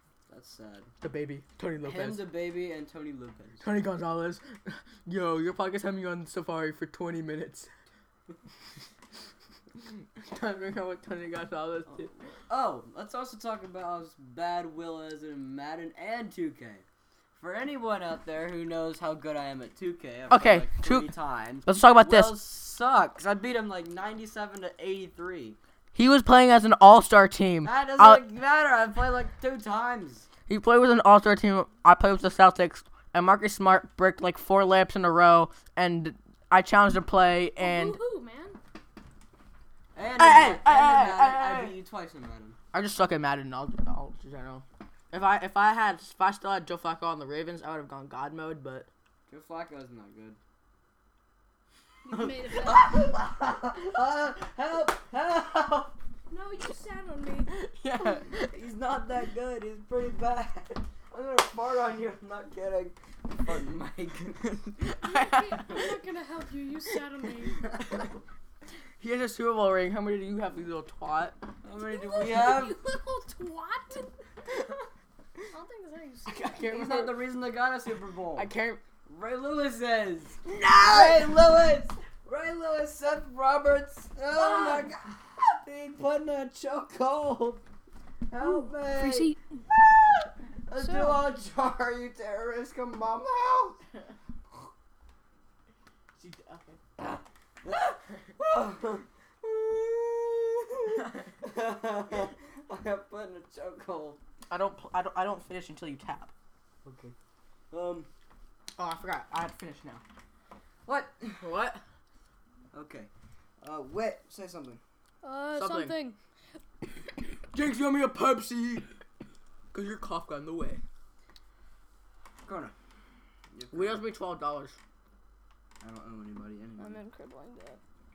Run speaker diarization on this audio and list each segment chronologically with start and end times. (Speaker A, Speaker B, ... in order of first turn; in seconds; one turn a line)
Speaker A: 0.3-0.9
Speaker B: 1.0-2.3
Speaker A: 1.8-3.7
Speaker B: 3.6-7.7
Speaker B: 9.8-12.2
Speaker A: 11.9-25.6
Speaker B: 20.3-21.1
Speaker B: 21.6-22.4
Speaker B: 25.9-28.2
Speaker A: 27.6-30.3
Speaker B: 30.5-38.0
Speaker C: 37.6-38.6
Speaker A: 39.9-42.6
Speaker B: 40.2-41.8
Speaker B: 42.7-48.9
Speaker A: 49.3-50.4
Speaker C: 52.0-53.0
Speaker A: 52.1-55.9
Speaker C: 56.3-57.5
Speaker B: 57.5-58.6
Speaker A: 58.4-64.5
Speaker B: 64.8-65.9
Speaker C: 65.0-67.7
Speaker B: 69.0-71.4
Speaker A: 71.6-72.8
Speaker C: 71.8-74.2
Speaker C: 75.5-76.7
Speaker B: 76.3-77.2
Speaker A: 76.7-78.5
Speaker B: 78.3-78.8
Speaker A: 79.0-87.6
Speaker B: 80.5-81.5
Speaker A: 88.3-93.8
Speaker C: 88.5-89.4
Speaker C: 90.8-91.3
Speaker B: 96.2-96.8
Speaker A: 97.0-104.2
Speaker B: 104.5-106.3
Speaker A: 106.8-107.2
Speaker A: 107.7-108.1
Speaker B: 108.8-110.0
Speaker A: 110.9-111.5
Speaker B: 111.3-111.8
Speaker A: 112.7-114.8
Speaker C: 115.2-116.2
Speaker B: 115.6-116.0
Speaker B: 117.5-118.9
Speaker B: 119.7-120.8
Speaker A: 122.5-122.8
Speaker A: 123.5-124.0
Speaker B: 123.7-124.8
Speaker A: 125.8-127.0
Speaker C: 126.8-127.8